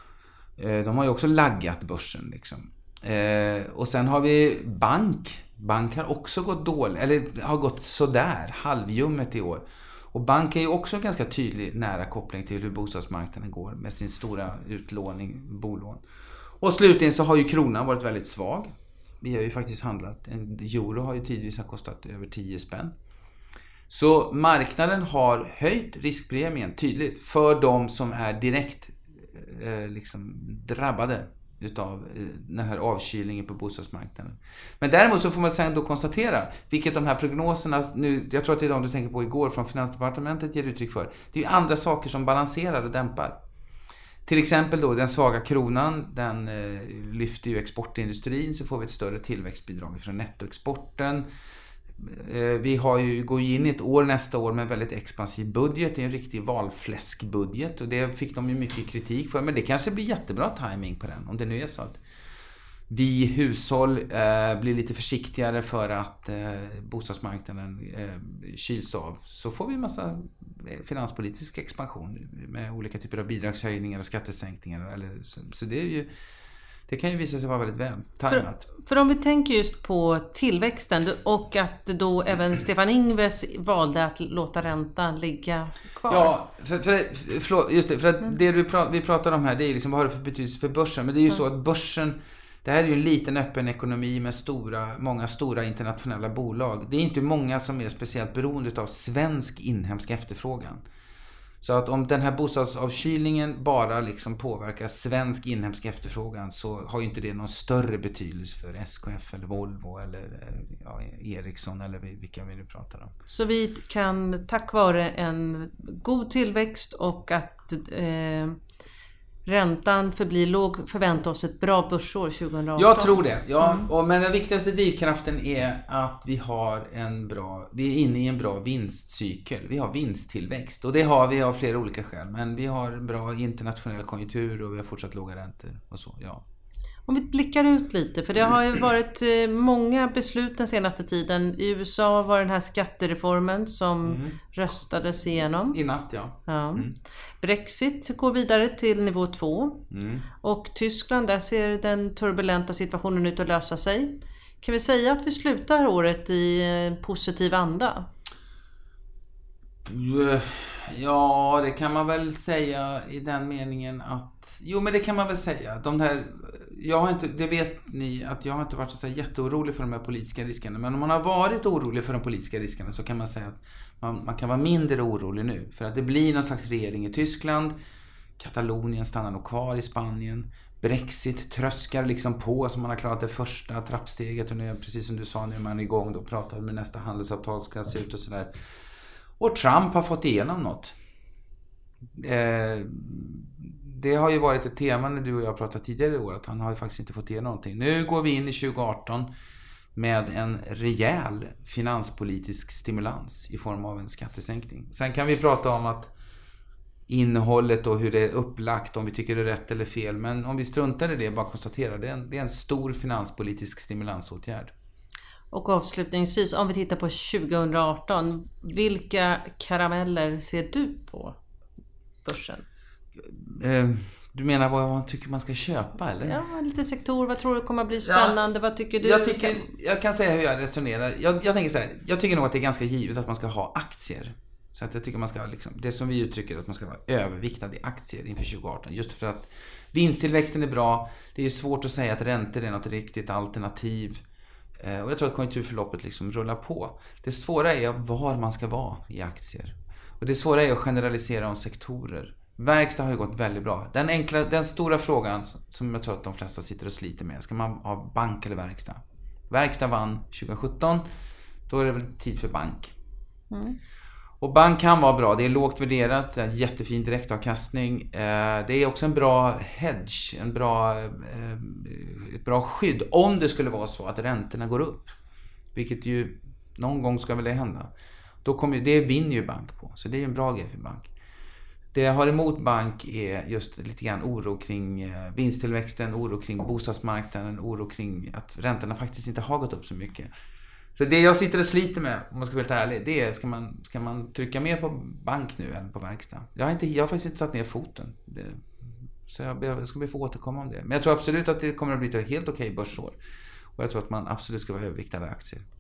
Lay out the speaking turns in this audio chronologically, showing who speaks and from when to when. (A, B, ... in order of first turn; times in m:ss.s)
0:00.6-0:16.0 A
0:16.6-0:23.0 A
0:23.9-0:43.4 A
0:44.3-0:51.3 A
0:52.0-1:02.0 A
1:02.9-1:16.1 A
1:16.9-1:18.7 A
1:18.3-1:26.4 B
1:26.1-1:40.8 A
1:41.6-1:53.1 A
1:53.3-1:58.6 B
1:59.5-2:03.9 B
2:02.8-2:16.4 A
2:17.1-2:25.8 B
2:24.0-2:24.6 A
2:25.7-2:26.9 A
2:26.5-2:29.8 B
2:29.9-2:30.3 A
2:30.4-2:38.1 B
2:39.9-2:57.8 A
2:58.4-3:08.5 A
3:09.4-3:11.0 A
3:12.2-3:19.3 A
3:20.0-3:26.1 A
3:27.1-3:34.7 A
3:35.5-3:41.4 B
3:42.2-3:42.6 B
3:43.2-3:46.4 A
3:46.2-3:49.7 B
3:48.0-3:48.4 A
3:49.0-4:04.2 A
4:04.8-4:21.1 A
4:21.7-4:22.9 A
4:23.5-4:23.8 B
4:24.4-4:35.2 A
4:35.7-4:37.9 A
4:38.4-4:41.1 A
4:41.9-4:50.3 A
4:50.9-5:03.2 A
5:03.8-5:05.7 A